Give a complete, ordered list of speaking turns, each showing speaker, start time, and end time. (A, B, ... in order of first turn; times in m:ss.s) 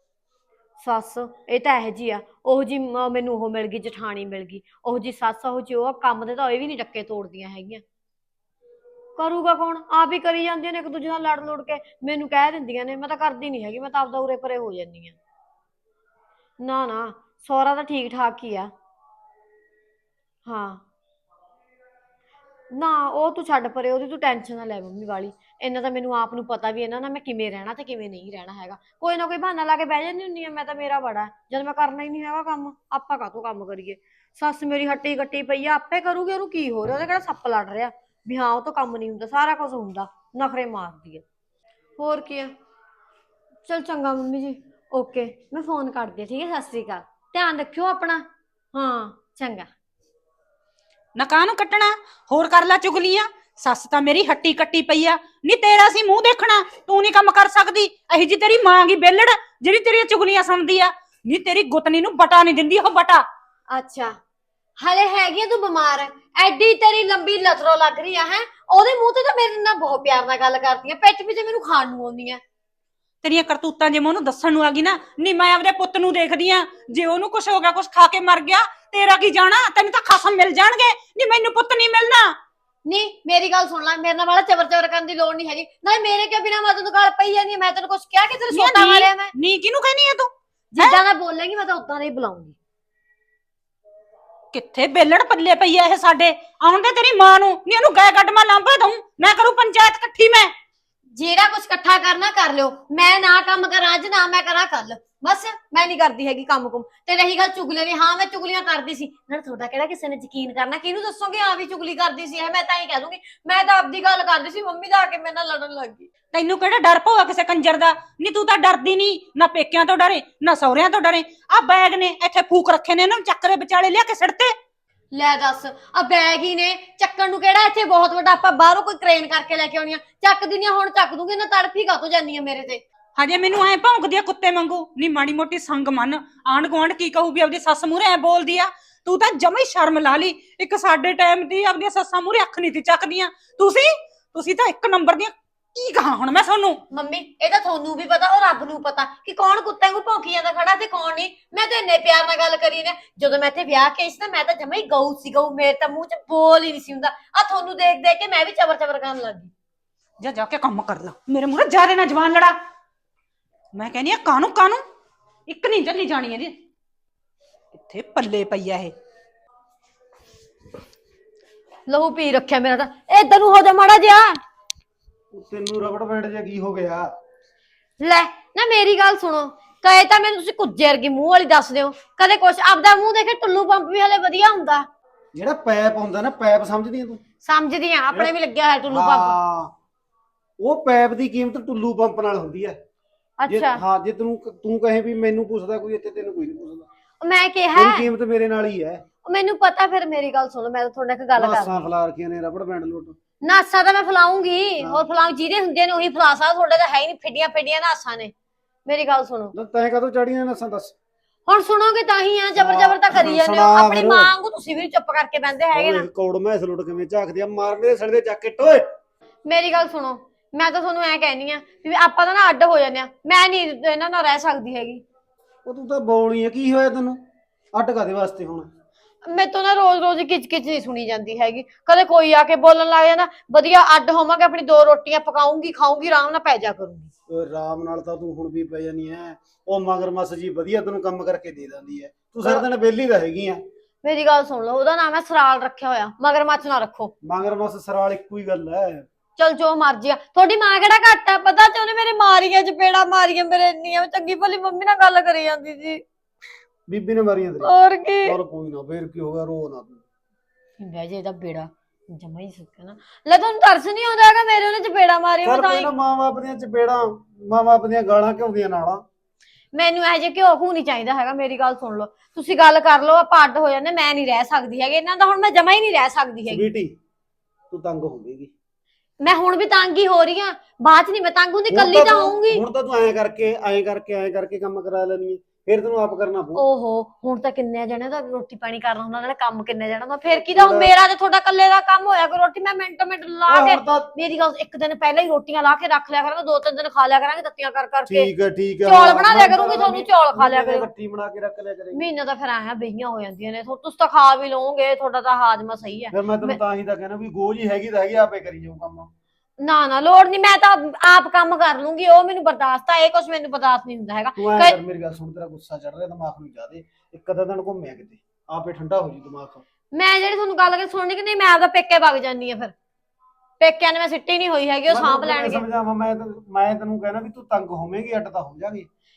0:00.8-0:07.8 A
0:09.2-0:15.2 A
0:16.6-0:18.7 A
0:20.4-0:20.8 A
0:22.7-0:41.2 A
0:42.0-0:42.5 A
0:43.6-0:49.7 A
0:51.2-1:03.2 B
1:03.7-1:04.2 A
1:04.8-1:12.4 A
1:13.2-1:22.3 B
1:22.8-1:29.3 A
1:28.5-1:31.0 B
1:30.8-1:32.6 A
1:34.5-1:40.5 B
1:41.1-1:56.1 A
1:56.3-2:04.5 B
2:05.1-2:12.8 A
2:13.2-2:26.8 B
2:26.9-2:39.5 A
2:40.2-2:42.5 B
2:43.7-2:44.8 B
2:45.5-2:46.5 B
2:47.7-2:48.9 B
2:51.9-2:54.4 A
2:55.3-2:57.1 C
2:58.0-3:04.8 A
3:05.3-3:07.2 C
3:07.4-3:09.4 A
3:08.9-3:09.7 C
3:10.6-3:12.8 C
3:13.4-3:13.8 A
3:13.5-3:16.9 C
3:17.2-3:18.1 A
3:17.7-3:19.0 C
3:19.2-3:21.9 A
3:21.4-3:23.1 C
3:23.4-3:28.3 A
3:24.8-3:25.0 C
3:28.8-3:29.5 A
3:29.5-3:30.9 C
3:31.5-3:36.1 A
3:32.6-3:34.3 C
3:35.7-3:38.9 C
3:39.4-3:45.0 A
3:45.6-3:47.2 C
3:47.7-3:48.7 C
3:49.2-3:57.1 A
3:57.3-4:03.6 C
4:04.0-4:07.1 A
4:07.2-4:09.1 C
4:09.4-4:16.0 A
4:16.9-4:17.7 C
4:17.7-4:18.3 A
4:18.2-4:20.0 C
4:20.8-4:25.9 A
4:25.4-4:29.0 C
4:29.7-4:36.7 A
4:36.5-4:37.0 C
4:37.7-4:38.5 C
4:39.2-4:42.6 A
4:41.7-4:46.6 C
4:46.5-4:58.3 A
4:50.5-4:50.9 C
4:53.5-4:54.1 C
4:58.1-5:02.0 C
4:58.8-5:00.9 A
5:01.9-5:06.6 A
5:06.1-5:09.1 C
5:09.6-5:14.8 A
5:14.4-5:19.6 C
5:19.9-5:22.7 A
5:23.6-5:25.6 A
5:24.9-5:28.9 C